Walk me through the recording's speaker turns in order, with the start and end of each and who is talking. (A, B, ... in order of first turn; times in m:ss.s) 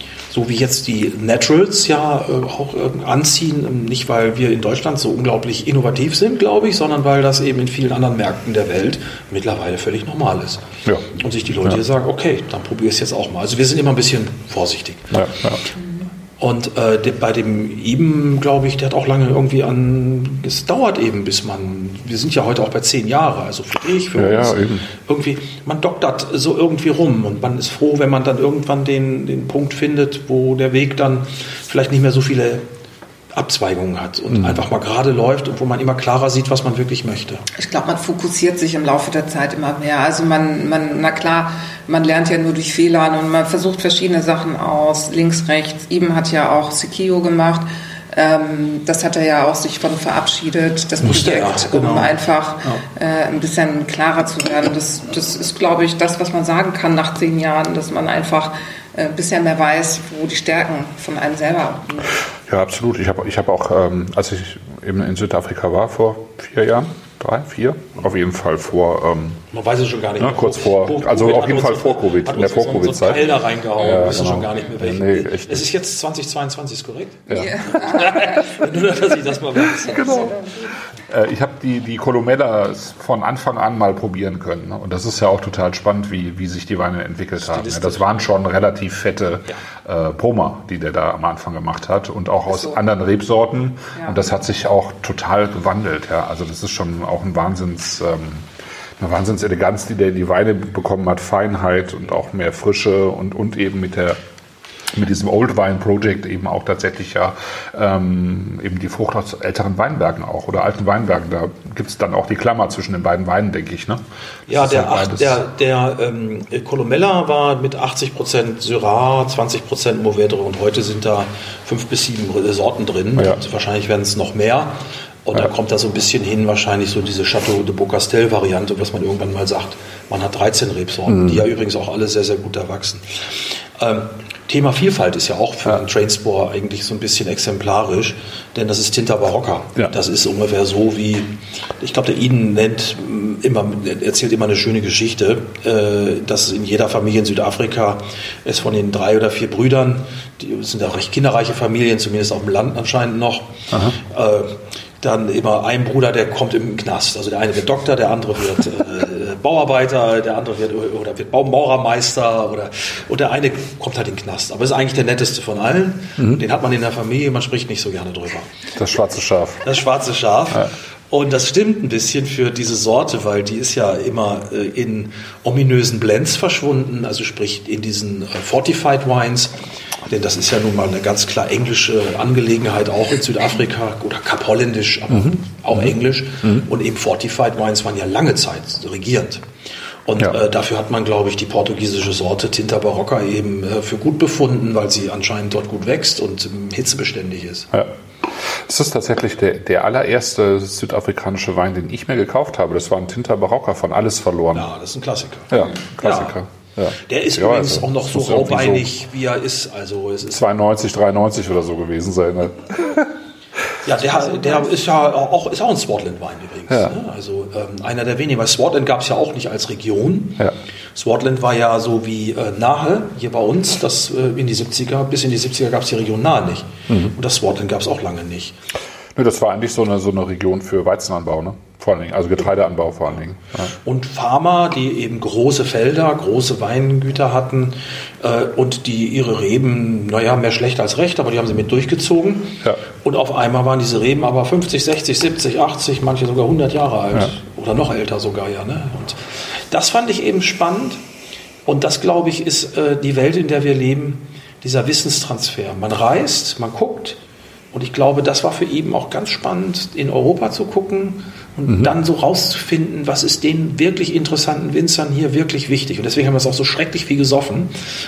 0:00.3-0:10.6 A
0:11.1-0:15.3 A
0:15.1-0:15.6 B
0:16.4-0:32.6 A
0:24.2-0:24.8 B
0:33.3-0:37.4 A
0:34.3-0:34.6 B
0:37.6-1:02.1 C
0:51.0-0:52.8 A
1:02.5-1:09.4 B
1:09.5-1:20.4 A
1:10.2-1:15.7 B
1:17.3-1:18.7 C
1:17.3-1:17.6 B
1:19.9-1:20.7 C
1:19.9-1:20.4 B
1:21.0-1:38.5 B
1:27.4-1:28.1 A
1:32.5-1:32.8 C
1:34.0-1:34.2 C
1:39.0-1:44.2 B
1:44.9-1:54.0 B
1:54.5-2:48.7 A
1:54.5-1:55.4 B
2:11.1-2:11.4 B
2:33.7-2:34.0 B
2:48.8-2:49.6 B
2:49.6-2:59.5 A
3:00.1-3:09.4 A
3:05.1-3:06.6 B
3:10.1-3:17.7 A
3:17.7-3:24.7 B
3:24.5-3:26.4 A
3:25.5-3:28.9 B
3:27.0-3:30.4 A
3:30.3-3:33.1 B
3:33.8-3:40.4 A
3:34.1-3:34.7 C
3:36.7-3:37.0 B
3:41.0-3:48.6 A
3:46.9-3:47.2 B
3:49.2-3:53.7 B
3:53.8-4:11.0 A
4:11.7-4:17.2 A
4:17.7-4:27.7 A